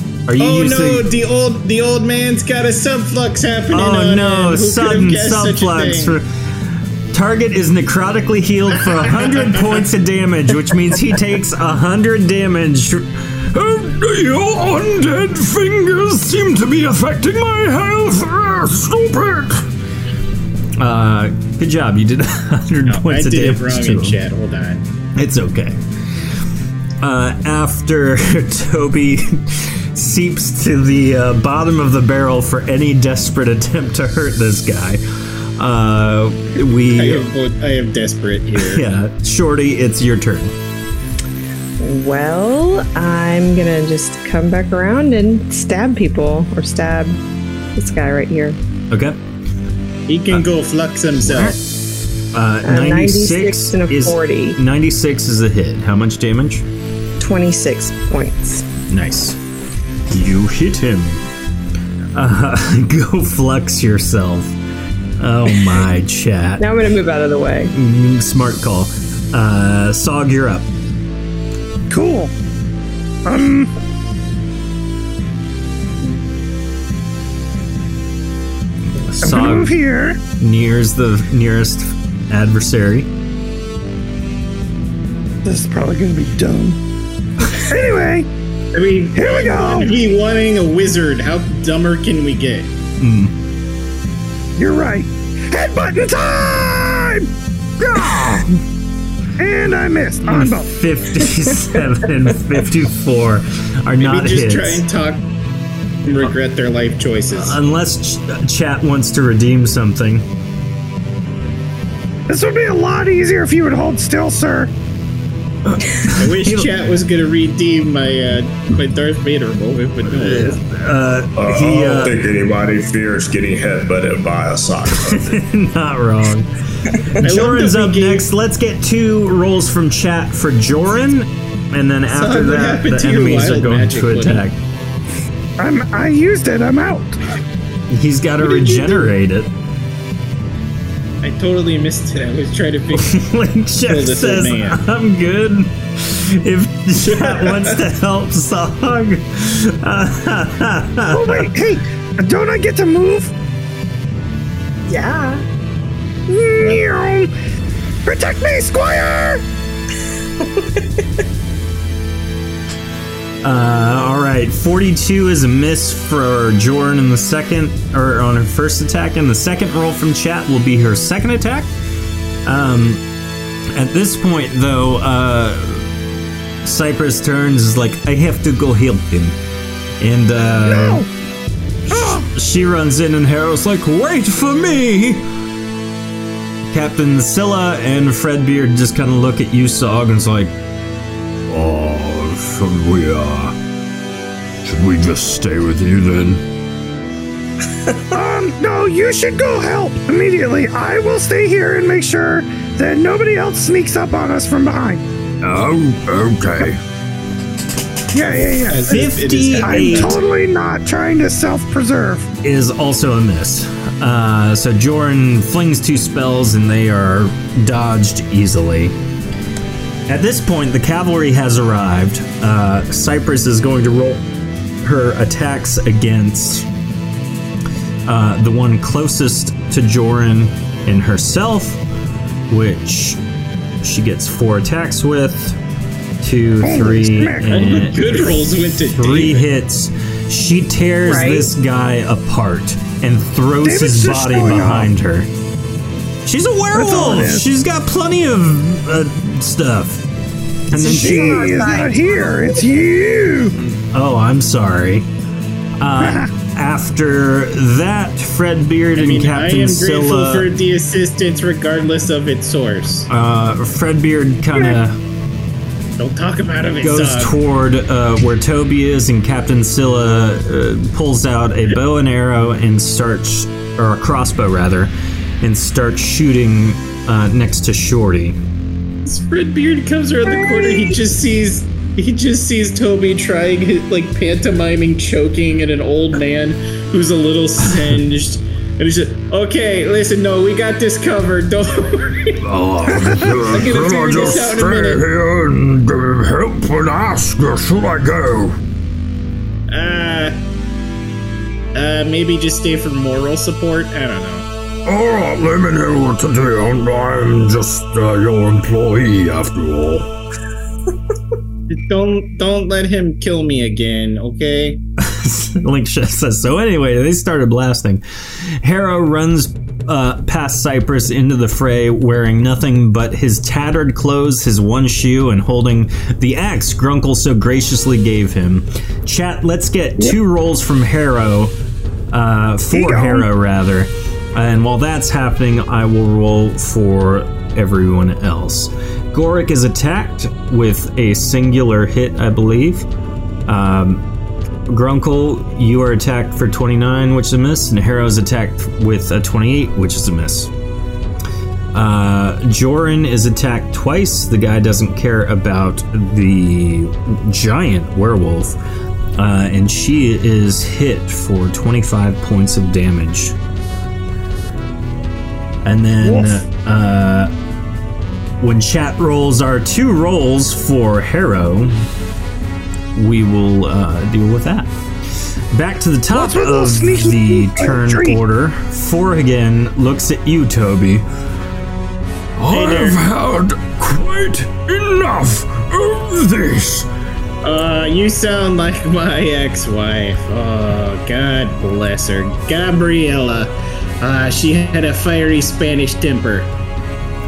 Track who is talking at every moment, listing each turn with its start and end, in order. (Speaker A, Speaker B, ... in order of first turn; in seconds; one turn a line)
Speaker A: 0.3-1.1
Speaker B: 0.4-6.2
Speaker A: 3.7-6.2
Speaker A: 7.1-13.1
Speaker C: 13.5-19.6
Speaker A: 20.8-24.2
Speaker B: 22.9-24.9
Speaker A: 25.1-25.8
Speaker A: 27.0-35.0
Speaker A: 35.6-37.3
Speaker B: 36.9-38.8
Speaker A: 38.5-40.5
Speaker D: 41.8-47.2
Speaker D: 47.8-48.6
Speaker A: 48.9-49.2
Speaker B: 50.1-51.6
Speaker A: 51.2-51.5
Speaker A: 52.3-56.6
Speaker D: 52.6-54.6
Speaker D: 57.2-58.6
Speaker A: 58.9-59.4
Speaker A: 60.1-61.3
Speaker A: 62.1-64.6
Speaker A: 65.2-66.6
Speaker D: 66.6-67.7
Speaker A: 67.7-70.7
Speaker E: 71.9-72.3
Speaker E: 73.2-73.7
Speaker A: 78.9-79.8
Speaker E: 79.2-80.2
Speaker A: 80.4-83.1
Speaker E: 85.4-86.8
Speaker E: 87.5-88.3
Speaker B: 88.7-92.7
Speaker E: 89.1-90.0
Speaker A: 93.0-93.3
Speaker E: 94.6-97.3
Speaker E: 97.9-98.4
Speaker E: 99.4-100.7
Speaker A: 100.3-104.8
Speaker B: 104.0-105.2
Speaker B: 106.0-107.6
Speaker A: 107.3-110.2
Speaker E: 112.3-114.7
Speaker A: 115.7-116.7
Speaker B: 116.0-120.6
Speaker A: 120.1-122.2
Speaker F: 121.3-125.4
Speaker A: 125.0-134.6
Speaker B: 127.2-128.2
Speaker B: 132.1-134.4
Speaker E: 135.6-137.2
Speaker A: 137.9-139.5
Speaker B: 138.5-139.0
Speaker B: 141.2-143.2
Speaker A: 142.9-151.5
Speaker B: 143.8-144.8
Speaker B: 147.0-147.8
Speaker E: 151.1-153.3
Speaker D: 154.8-155.4
Speaker E: 156.3-157.3
Speaker E: 158.0-159.4
Speaker A: 163.4-171.7
Speaker A: 172.4-173.0
Speaker A: 173.7-175.9
Speaker A: 176.6-179.4
Speaker A: 180.0-181.0
Speaker E: 180.6-181.1
Speaker A: 181.9-185.3
Speaker E: 181.9-182.3
Speaker A: 186.7-190.5
Speaker C: 191.5-193.5
Speaker C: 194.6-196.4
Speaker E: 198.1-205.0
Speaker C: 205.4-206.8
Speaker E: 208.1-209.1
Speaker B: 208.7-210.2
Speaker A: 208.9-210.2
Speaker E: 209.6-212.3
Speaker A: 212.4-218.9
Speaker A: 220.1-224.2
Speaker A: 224.8-226.7
Speaker A: 228.1-231.8
Speaker A: 232.5-233.2
Speaker A: 233.8-235.6
Speaker A: 236.2-245.3
Speaker E: 236.6-237.6
Speaker B: 237.4-239.5
Speaker D: 241.0-241.5
Speaker E: 243.6-244.9
Speaker A: 246.2-250.0
Speaker E: 246.7-247.5
Speaker A: 250.7-251.6
Speaker D: 250.7-252.8
Speaker E: 250.7-253.5
Speaker A: 253.6-255.1
Speaker A: 255.8-260.4
Speaker E: 256.0-256.3
Speaker B: 258.9-263.1
Speaker A: 263.1-265.0
Speaker B: 266.0-267.4
Speaker A: 266.8-278.4
Speaker B: 279.0-292.4
Speaker C: 292.4-298.6
Speaker E: 292.9-293.4
Speaker B: 293.5-295.0
Speaker B: 299.7-300.3
Speaker B: 301.7-304.5
Speaker C: 304.9-310.1
Speaker B: 311.7-314.8
Speaker A: 315.0-331.5
Speaker A: 332.1-342.9
Speaker E: 332.7-333.3
Speaker A: 343.5-344.0
Speaker A: 344.7-350.5
Speaker A: 351.7-358.6
Speaker A: 359.2-363.4
Speaker A: 365.6-367.3
Speaker E: 366.0-366.4
Speaker A: 368.4-371.8
Speaker A: 372.9-374.7
Speaker A: 375.5-381.0
Speaker E: 376.1-378.2
Speaker C: 382.4-386.9
Speaker A: 382.5-382.9
Speaker B: 387.4-396.5